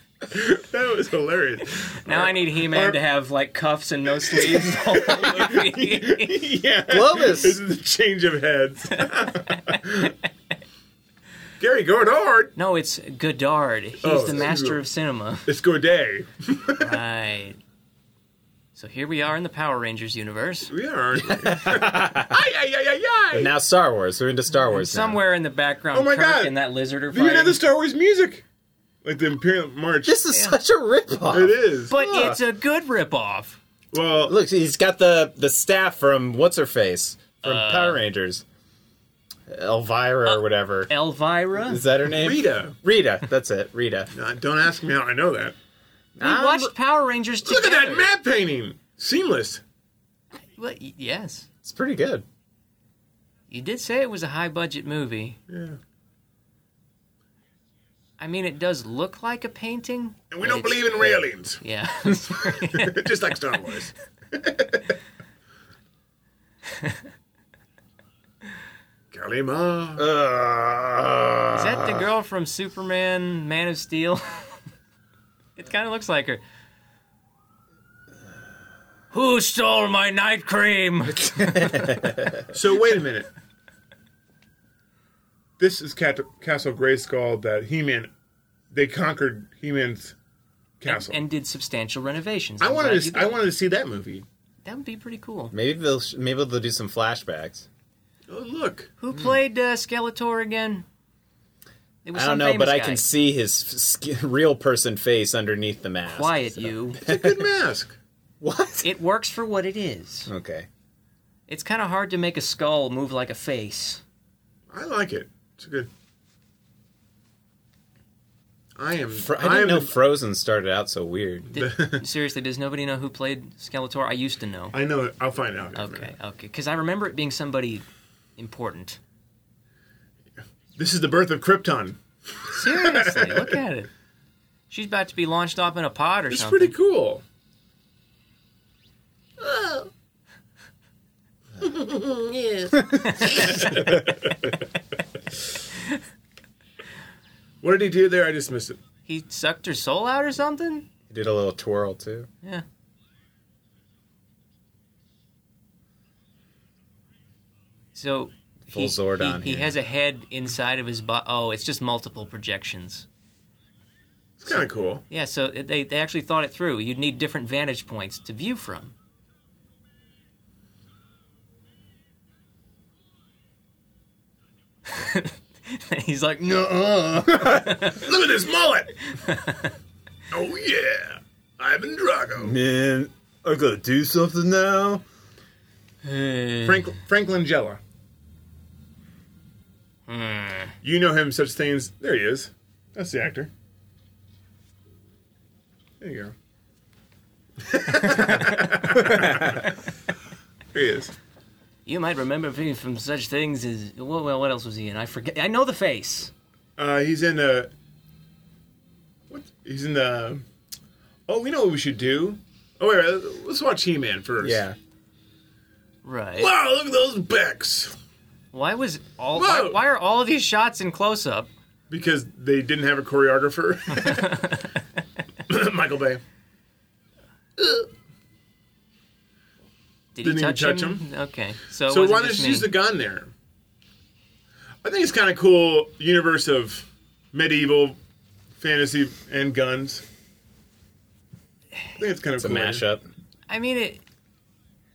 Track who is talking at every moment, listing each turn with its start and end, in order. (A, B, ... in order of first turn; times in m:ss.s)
0:00.3-0:03.0 A
0:02.0-0:06.4 B
0:04.2-0:10.1 A
0:06.9-0:07.6 C
0:11.6-0:12.5 A
0:12.6-0:15.5 B
0:14.0-0:14.8 A
0:15.4-0:17.0 A
0:16.8-0:17.6 B
0:18.7-0:20.7 B
0:20.7-0:23.5 A
0:21.1-0:22.4 C
0:23.3-0:25.2 C
0:24.7-0:27.6 B
0:25.9-0:26.6 A
0:27.1-0:28.4 A
0:29.0-0:30.2 A
0:30.0-0:32.4 C
0:30.3-0:30.6 B
0:31.3-0:32.0 A
0:31.9-0:33.6 B
0:33.9-0:34.3 A
0:34.2-0:38.4 C
0:37.4-0:38.0 B
0:39.5-0:40.9 C
0:40.2-0:41.8 B
0:41.6-0:44.1 C
0:42.1-0:42.8 A
0:44.1-0:45.5 A
0:46.2-0:46.7 C
0:46.2-0:48.1 B
0:47.4-0:49.6 A
0:50.4-0:51.5 B
0:51.6-0:52.2 C
0:53.5-0:55.4 B
0:55.5-0:55.8 A
0:58.2-1:03.0 B
1:00.3-1:01.6 A
1:02.4-1:04.9 A
1:06.7-1:07.0 B
1:09.1-1:10.1 A
1:10.0-1:12.1 C
1:11.5-1:14.5 B
1:15.6-1:16.4 B
1:19.1-1:21.9 B
1:21.1-1:22.5 C
1:22.5-1:23.3 A
1:25.6-1:28.1 A
1:28.7-1:30.1 A
1:30.8-1:31.2 A
1:30.8-1:33.4 B
1:32.6-1:34.2 A
1:34.6-1:35.5 B
1:35.5-1:37.6 C
1:38.3-1:38.9 A
1:39.0-1:40.8 B
1:42.0-1:43.0 B
1:42.1-1:47.4 C
1:46.1-1:47.0 B
1:47.0-1:48.0 A
1:48.4-1:48.9 C
1:48.8-1:50.3 B
1:50.3-1:50.7 C
1:51.5-1:54.0 B
1:54.7-1:55.9 A
1:58.8-1:59.9 A
1:59.2-2:01.5 C
2:01.5-2:04.7 B
2:01.5-2:02.0 A
2:04.7-2:06.1 A
2:05.7-2:07.8 B
2:08.4-2:09.0 B
2:10.8-2:13.6 A
2:12.5-2:13.9 B
2:14.7-2:16.7 B
2:16.3-2:17.2 A
2:19.4-2:19.9 A
2:21.6-2:24.5 A
2:22.7-2:23.8 B
2:27.6-2:28.8 A
2:29.1-2:30.9 B
2:31.1-2:32.3 C
2:37.9-2:43.0 B
2:38.7-2:39.7 C
2:44.4-2:45.0 A
2:45.1-2:48.9 B
2:54.9-2:58.0 B
2:57.8-2:59.0 A
2:59.1-2:59.7 B
3:00.3-3:02.6 A
3:02.4-3:05.0 C
3:06.0-3:06.9 B
3:06.6-3:07.8 A
3:10.1-3:10.7 B
3:10.8-3:13.5 A
3:16.0-3:16.3 A
3:17.6-3:19.7 A
3:18.0-3:18.6 B
3:20.7-3:21.1 A
3:21.8-3:26.3 B
3:26.8-3:27.7 A
3:29.3-3:30.4 A
3:31.3-3:34.6 A
3:34.4-3:34.8 C
3:36.0-3:36.5 B
3:36.4-3:38.0 A
3:38.5-3:41.5 B
3:39.4-3:39.8 A
3:41.9-3:44.6 A
3:44.0-3:44.5 B
3:45.5-3:46.2 A
3:47.6-3:47.9 A
3:50.1-3:52.7 B
3:50.2-3:51.1 A
3:51.9-3:53.3 A
3:54.8-3:58.0 A
3:58.6-4:00.0 A
4:02.0-4:02.8 A
4:02.4-4:03.1 C
4:03.5-4:04.0 B